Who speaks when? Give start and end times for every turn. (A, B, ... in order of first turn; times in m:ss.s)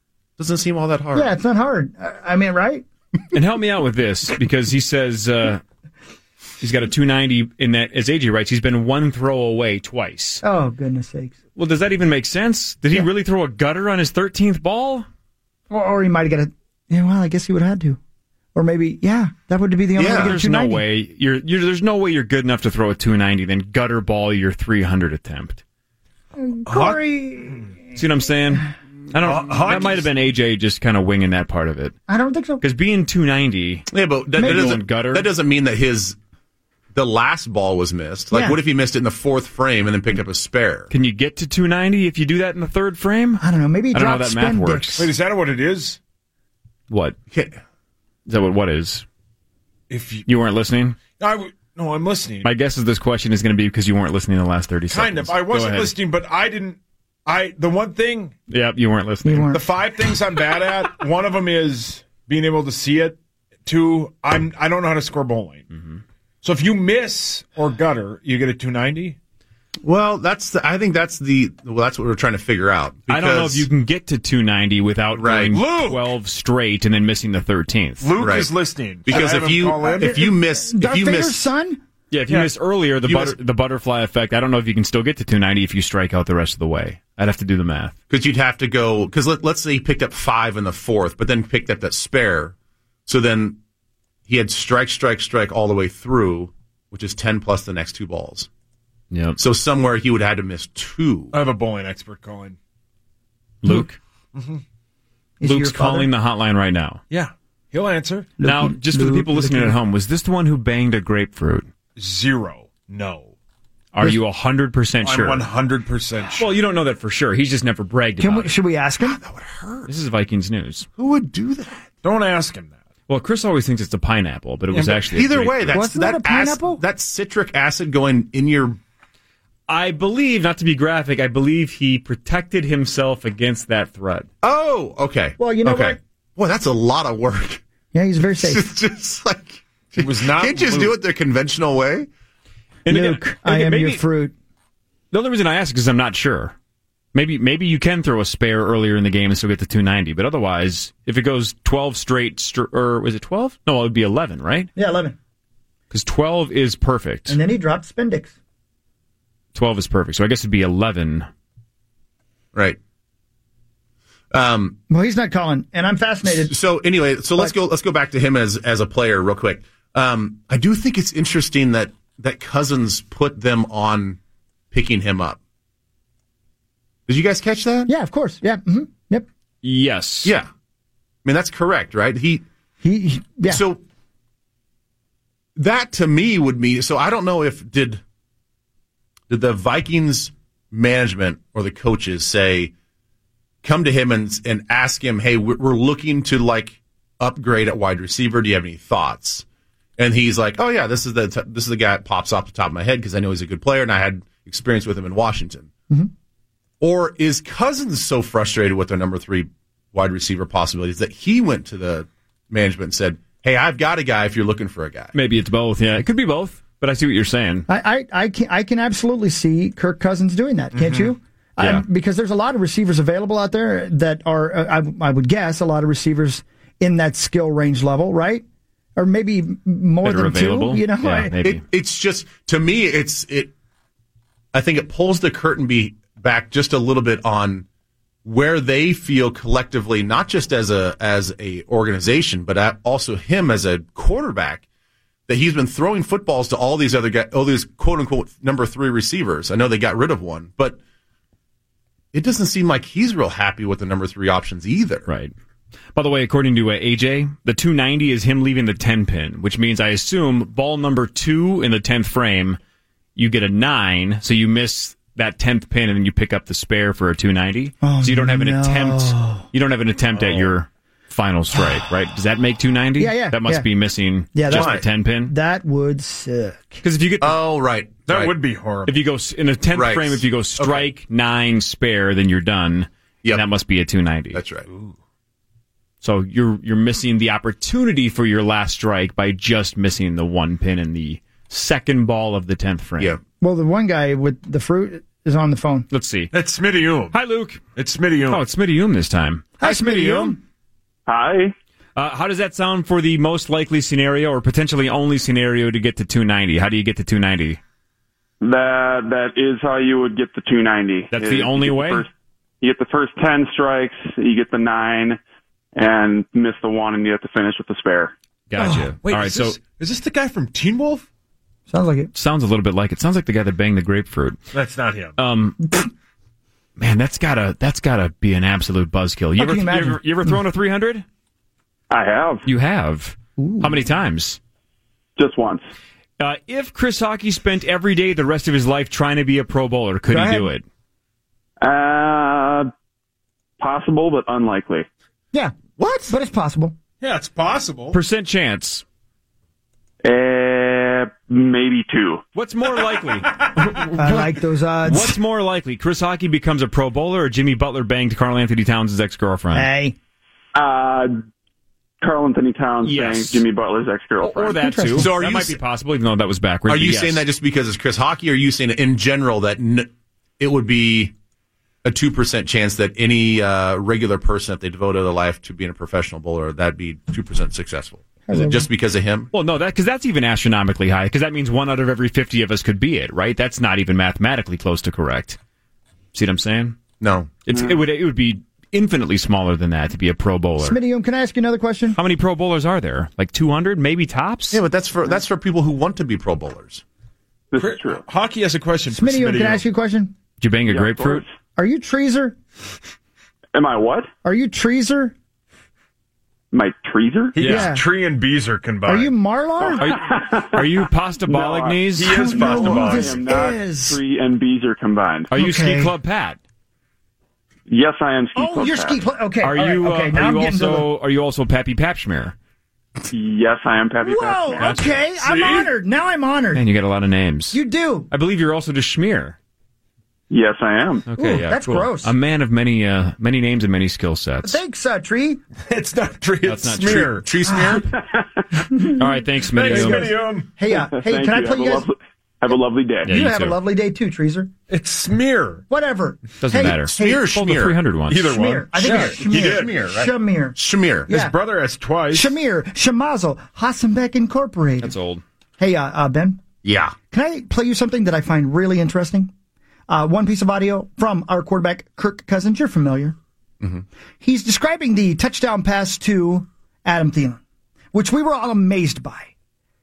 0:00.4-0:01.3 A
0:01.1-0:02.8 B
0:03.3-0:05.6 C
0:06.6-0:10.4 C
0:10.4-0:11.4 B
0:11.6-0:15.1 C
0:15.7-0:18.0 B
0:18.5-0:20.8 B
0:20.0-0:20.3 A
0:20.1-0:25.6 C
0:26.4-0:27.7 B
0:26.7-0:27.6 D
0:27.9-0:31.9 C
0:29.2-0:30.1 D
0:32.1-0:32.6 B
0:32.6-0:35.3 C
0:33.9-0:36.2 A
0:34.4-0:34.7 B
0:36.9-0:40.9 A
0:38.3-0:38.6 B
0:40.9-0:45.0 C
0:43.4-0:45.1 B
0:45.0-0:46.0 D
0:46.9-0:47.2 C
0:47.3-0:47.6 A
0:48.3-0:49.0 C
0:49.9-0:50.3 D
0:50.2-0:51.0 C
0:51.2-0:52.5 D
0:52.4-0:55.9 C
0:54.9-0:58.3 D
0:58.5-0:59.5 C
0:59.2-0:59.6 B
0:59.5-1:05.6 D
1:05.7-1:06.0 C
1:06.4-1:09.2 D
1:09.8-1:13.7 A
1:13.1-1:18.1 C
1:15.2-1:15.5 A
1:15.5-1:16.1 D
1:18.0-1:20.2 D
1:18.2-1:21.4 A
1:19.8-1:21.8 B
1:22.1-1:28.0 C
1:23.0-1:23.4 A
1:28.1-1:32.5 A
1:33.1-1:33.6 A
1:34.3-1:38.5 A
1:39.1-1:39.4 C
1:39.4-1:41.3 A
1:41.3-1:42.6 D
1:43.6-1:44.0 C
1:44.3-1:44.6 D
1:45.4-1:46.1 B
1:45.4-1:47.0 C
1:47.1-1:48.3 D
1:48.4-1:49.8 B
1:48.4-1:51.7 C
1:52.0-1:53.3 D
1:53.9-1:55.4 C
1:55.0-1:56.5 D
1:56.3-1:58.5 C
1:58.2-1:59.2 B
1:59.0-1:59.9 A
1:59.9-2:00.9 C
2:01.0-2:01.9 A
2:02.0-2:02.8 D
2:03.1-2:05.8 C
2:05.0-2:08.8 A
2:05.7-2:06.8 B
2:09.7-2:14.3 C
2:14.4-2:17.6 A
2:15.4-2:16.0 B
2:17.9-2:18.6 B
2:18.4-2:22.1 A
2:20.0-2:21.0 D
2:22.8-2:24.0 C
2:22.9-2:24.3 B
2:25.1-2:26.5 C
2:27.1-2:34.7 C
2:34.7-2:35.2 B
2:35.9-2:37.4 C
2:37.3-2:38.3 B
2:39.5-2:41.3 C
2:42.5-2:42.8 A
2:44.3-2:44.8 A
2:44.9-2:46.6 B
2:46.2-2:54.2 A
2:54.7-2:55.4 A
2:57.1-2:57.9 A
2:57.8-2:59.3 B
2:59.6-3:00.3 C
3:00.2-3:00.5 A
3:01.2-3:02.4 A
3:02.8-3:03.6 B
3:03.5-3:03.8 A
3:05.6-3:08.0 A
3:09.3-3:12.7 A
3:13.6-3:19.4 A
3:20.0-3:25.7 A
3:26.8-3:35.1 A
3:35.1-3:37.7 C
3:37.7-3:48.4 B
3:41.6-3:41.8 C
3:49.0-3:51.3 B
3:50.0-3:51.6 C
3:51.4-3:53.5 A
3:54.5-3:57.6 A
3:58.2-4:04.6 A
4:05.3-4:10.8 A
4:12.1-4:15.1 A
4:15.0-4:15.3 C
4:15.9-4:22.6 C
4:23.2-4:35.3 C
4:27.8-4:29.4 B
4:30.1-4:30.5 D
4:33.0-4:33.7 B
4:34.3-4:36.8 B
4:34.5-4:34.8 A
4:36.8-4:37.4 C
4:37.2-4:38.4 A
4:38.1-4:39.0 D
4:38.8-4:44.4 C
4:39.7-4:40.9 A
4:44.3-4:44.6 A
4:44.7-4:44.9 D
4:46.0-4:53.2 C
4:53.4-4:55.9 B
4:55.9-4:56.3 C
4:56.3-4:57.2 D
4:57.1-4:57.6 C
4:57.8-4:58.4 D
4:58.3-5:00.4 C
4:59.6-5:00.4 B
5:01.1-5:01.5 E
5:02.0-5:07.6 C
5:08.4-5:12.1 E
5:11.1-5:12.0 C
5:12.6-5:15.2 E
5:15.8-5:18.1 E
5:18.5-5:19.6 C
5:18.7-5:21.0 D
5:21.7-5:22.1 B
5:22.1-5:24.4 C
5:24.5-5:25.2 D
5:25.2-5:25.6 C
5:26.8-5:31.0 C
5:29.4-5:30.4 B
5:31.9-5:32.4 E
5:32.4-5:34.4 C
5:33.4-5:33.8 B
5:35.2-5:35.7 E
5:36.2-5:40.6 C
5:40.1-5:40.5 B
5:41.6-5:42.7 E
5:43.6-5:44.8 E
5:45.8-5:46.1 A
5:46.1-5:46.7 B
5:47.0-5:48.0 D
5:47.9-5:48.8 C
5:50.0-5:52.2 E
5:52.3-5:54.3 C
5:54.0-5:55.2 B
5:54.8-5:59.7 C
5:59.5-6:00.0 B
6:00.5-6:01.2 E
6:02.0-6:04.6 E
6:02.8-6:03.4 C
6:04.2-6:07.2 C
6:04.6-6:05.1 B
6:04.9-6:05.6 A
6:06.7-6:11.1 A
6:11.8-6:19.3 A
6:18.3-6:18.7 B
6:19.3-6:25.4 C
6:26.1-6:26.8 C
6:27.0-6:27.4 A
6:27.4-6:30.8 C
6:27.5-6:27.8 E
6:30.6-6:32.0 B
6:32.0-6:34.6 C
6:34.5-6:36.8 A
6:37.5-6:38.0 E
6:37.6-6:39.6 D
6:38.9-6:40.1 B
6:40.4-6:41.2 C
6:40.7-6:41.3 E
6:41.6-6:42.4 B
6:43.5-6:44.1 E
6:44.2-6:45.1 B
6:46.5-6:47.4 E
6:47.3-6:49.1 D
6:47.4-6:47.8 B
6:48.8-6:50.0 B
6:49.7-6:50.7 E
6:49.8-6:53.0 C
6:51.3-6:55.3 E
6:52.0-6:53.1 D
6:52.0-6:54.0 B
6:55.3-6:56.4 C
6:55.3-6:55.9 B
6:57.7-6:59.0 E
6:58.3-7:00.9 B
6:59.4-7:02.3 C
7:03.1-7:04.8 E
7:04.0-7:06.6 B
7:04.5-7:05.0 C
7:05.2-7:05.7 D
7:06.5-7:07.6 C
7:07.5-7:08.1 B
7:08.1-7:09.4 C
7:10.3-7:11.0 E
7:11.0-7:14.6 C
7:11.2-7:12.1 B
7:14.4-7:15.4 B
7:15.7-7:17.8 D
7:16.4-7:17.1 C
7:16.8-7:17.9 A
7:17.5-7:17.8 B
7:18.7-7:21.9 B
7:19.0-7:20.1 C
7:19.5-7:20.5 D
7:20.9-7:23.1 E
7:23.0-7:23.6 C
7:23.0-7:24.5 B
7:24.7-7:25.6 D
7:25.7-7:27.3 B
7:26.4-7:28.3 C
7:26.9-7:27.8 A
7:28.1-7:29.8 D
7:28.2-7:31.3 B
7:28.9-7:31.1 A
7:31.1-7:32.3 D
7:32.1-7:34.9 B
7:34.8-7:35.2 C
7:35.6-7:36.4 B
7:36.6-7:36.9 A
7:37.1-7:39.3 B
7:39.9-7:43.2 B
7:44.2-7:47.4 B
7:47.9-7:49.3 B